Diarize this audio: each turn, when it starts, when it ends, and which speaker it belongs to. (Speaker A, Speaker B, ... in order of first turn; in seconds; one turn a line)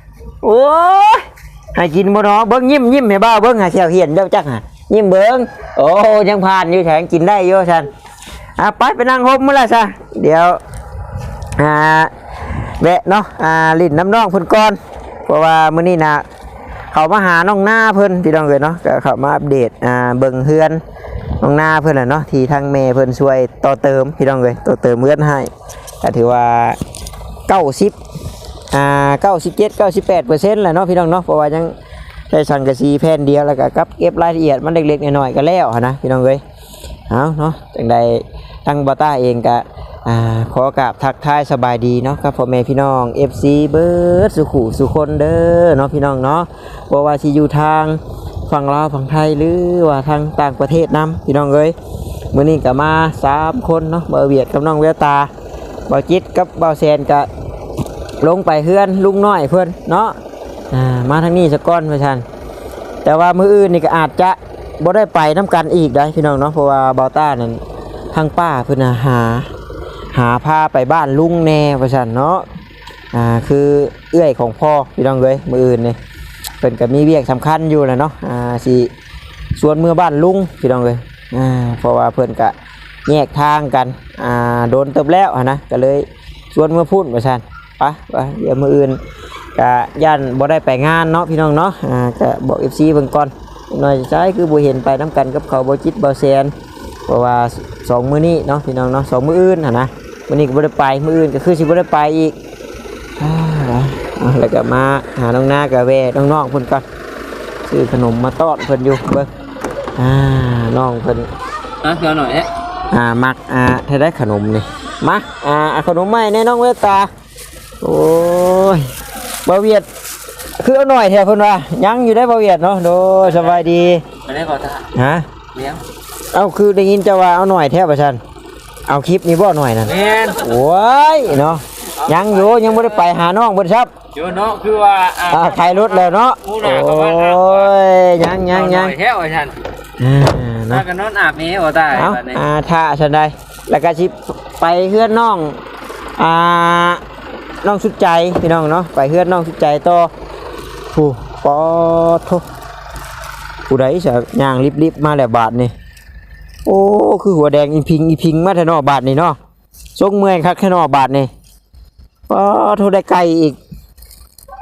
Speaker A: 0.4-7.9
Speaker A: 8.6-10.6
Speaker A: 11.6-12.1
Speaker A: 12.8-16.2
Speaker A: 16.9-20.8
Speaker A: 21.4-25.5
Speaker A: 26.0-26.8
Speaker A: 27.5-28.0
Speaker A: 28.7-31.8
Speaker A: 32.3-36.4
Speaker A: 37.1-51.8
Speaker A: 52.3-55.3
Speaker A: 55.9-57.3
Speaker A: 58.2-60.2
Speaker A: 60.7-62.2
Speaker A: 63.0-67.6
Speaker A: 68.1-69.5
Speaker A: 70.1-72.5
Speaker A: 73.1-76.0
Speaker A: 76.6-78.9
Speaker A: 79.6-82.5
Speaker A: 83.1-89.0
Speaker A: 89.6-96.5
Speaker A: 97.1-102.4
Speaker A: 103.2-106.8
Speaker A: 107.7-109.3
Speaker A: 110.0-111.3
Speaker B: 111.8-112.5
Speaker A: 112.9-117.1
Speaker A: 117.8-118.9
Speaker A: 119.5-119.9
Speaker A: 120.6-124.0
Speaker B: 124.3-124.8
Speaker A: 124.9-125.3
Speaker A: 126.3-128.2
Speaker A: 128.9-133.9
Speaker B: 134.2-135.3
Speaker A: 135.2-139.0
Speaker B: 136.5-137.3
Speaker B: 138.8-139.6
Speaker A: 140.0-140.9
Speaker B: 140.8-142.4
Speaker A: 141.9-145.6
Speaker A: 146.2-147.0
Speaker A: 147.6-150.1
Speaker A: 150.9-152.4
Speaker A: 153.7-155.7
Speaker A: 156.7-159.4
Speaker A: 160.0-161.3
Speaker A: 162.3-163.6